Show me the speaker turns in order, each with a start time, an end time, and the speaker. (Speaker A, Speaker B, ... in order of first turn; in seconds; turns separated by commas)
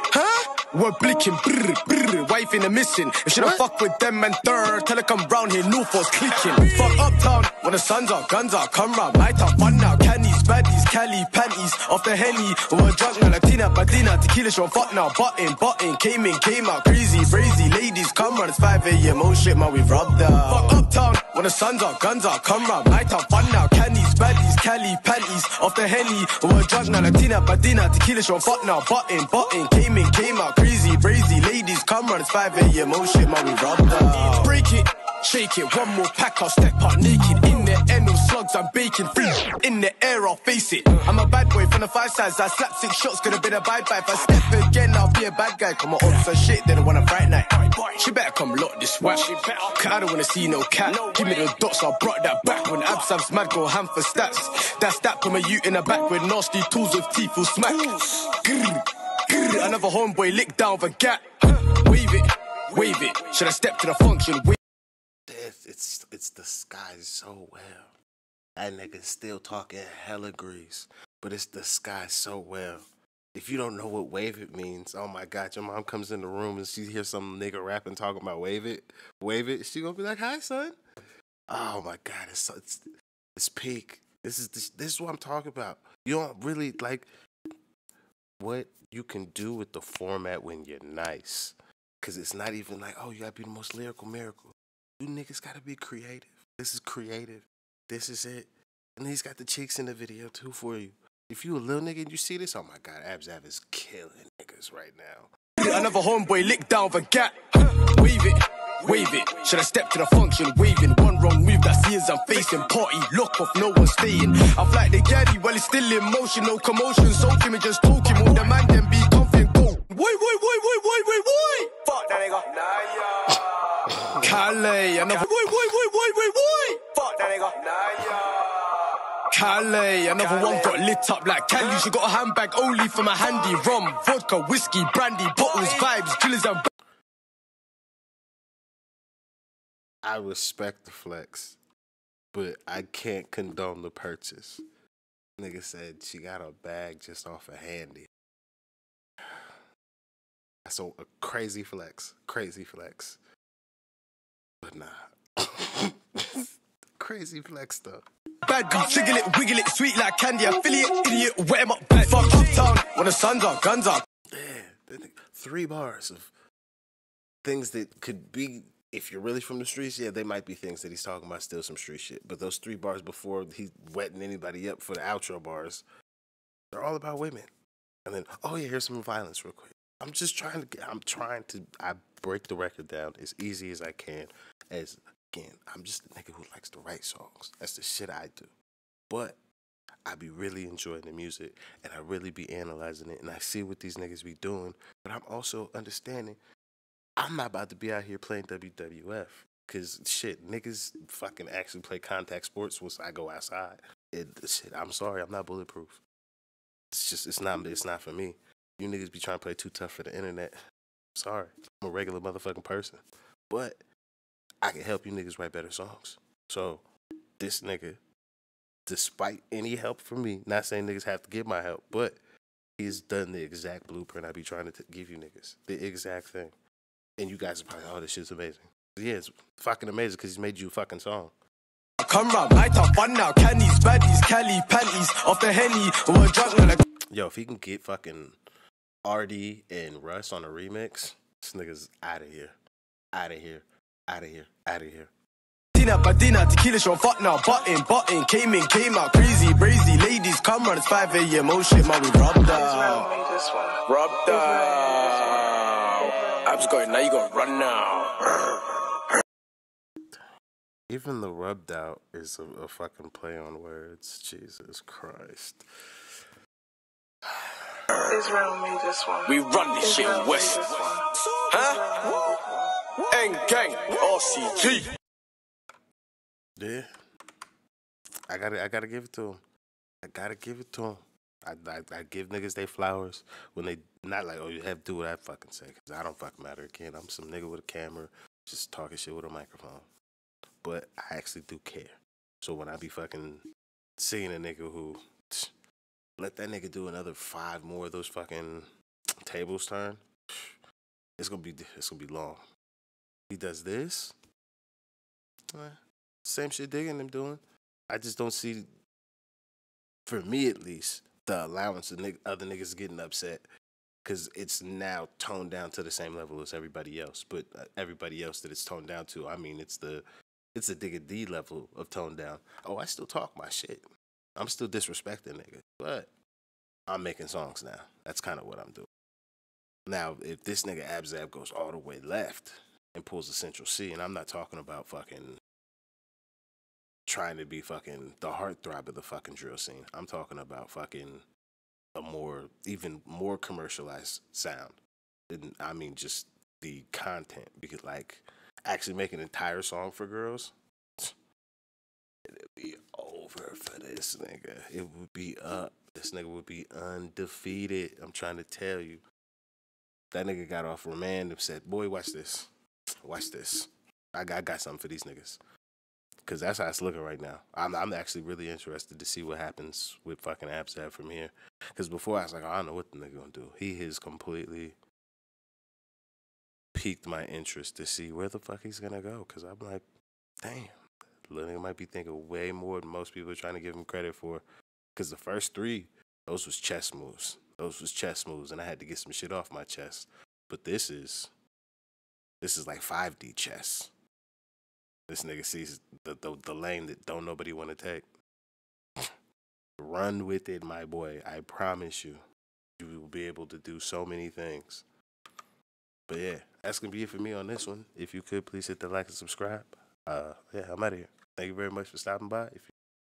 Speaker A: 0.1-0.4, Speaker B: 0.7-64.6, Speaker A: 3.4-3.6, Speaker A: 65.3-67.9, Speaker A: 68.6-80.8, Speaker A: 81.5-82.8, Speaker A: 83.4-87.1, Speaker A: 88.4-105.3, Speaker B: 105.6-123.5, Speaker B: 124.2-136.7, Speaker A: 140.0-141.6, Speaker A: 142.3-144.6, Speaker A: 145.4-148.1, Speaker A: 149.2-149.5, Speaker A: 150.7-153.2, Speaker A: 154.6-158.1, Speaker B: 158.4-164.0, Speaker A: 164.3-166.3, Speaker A: 167.4-175.8, Speaker A: 176.7-177.5, Speaker A: 178.1-188.5, Speaker A: 189.1-189.4, Speaker A: 190.1-196.4, Speaker A: 197.2-206.0, Speaker A: 206.9-210.6, Speaker A: 211.2-213.8, Speaker A: 214.6-216.8, Speaker A: 217.4-218.0, Speaker A: 218.9-222.2, Speaker A: 222.8-226.6, Speaker A: 227.2-231.3, Speaker B: 232.0-236.8, Speaker A: 237.1-238.4, Speaker A: 239.1-242.6, Speaker A: 243.1-245.1, Speaker B: 245.7-253.1, Speaker C: 252.5-256.8, Speaker B: 253.9-258.7, Speaker A: 260.9-265.6, Speaker C: 268.1-271.0, Speaker B: 269.3-272.4, Speaker C: 271.6-272.8, Speaker B: 273.0-274.9, Speaker A: 276.6-276.9, Speaker A: 278.3-279.4, Speaker A: 280.0-289.9, Speaker A: 290.6-293.4, Speaker A: 294.0-295.5, Speaker A: 296.2-298.7, Speaker A: 299.2-300.6, Speaker A: 301.2-302.4, Speaker A: 303.3-304.2, Speaker A: 305.5-308.7, Speaker A: 310.1-313.4, Speaker A: 314.0-323.9, Speaker A: 324.4-326.1, Speaker A: 326.9-328.9, Speaker A: 329.9-335.4, Speaker A: 337.1-341.2, Speaker A: 341.9-344.8, Speaker A: 345.3-351.1, Speaker A: 352.3-359.0, Speaker A: 360.1-362.5, Speaker A: 363.0-365.4, Speaker A: 366.2-374.8, Speaker A: 376.7-379.8, Speaker A: 380.4-380.8, Speaker A: 381.3-384.4, Speaker A: 384.9-391.3, Speaker A: 392.4-393.9, Speaker A: 395.1-398.1, Speaker A: 399.8-402.2, Speaker A: 402.8-404.9, Speaker A: 406.1-412.7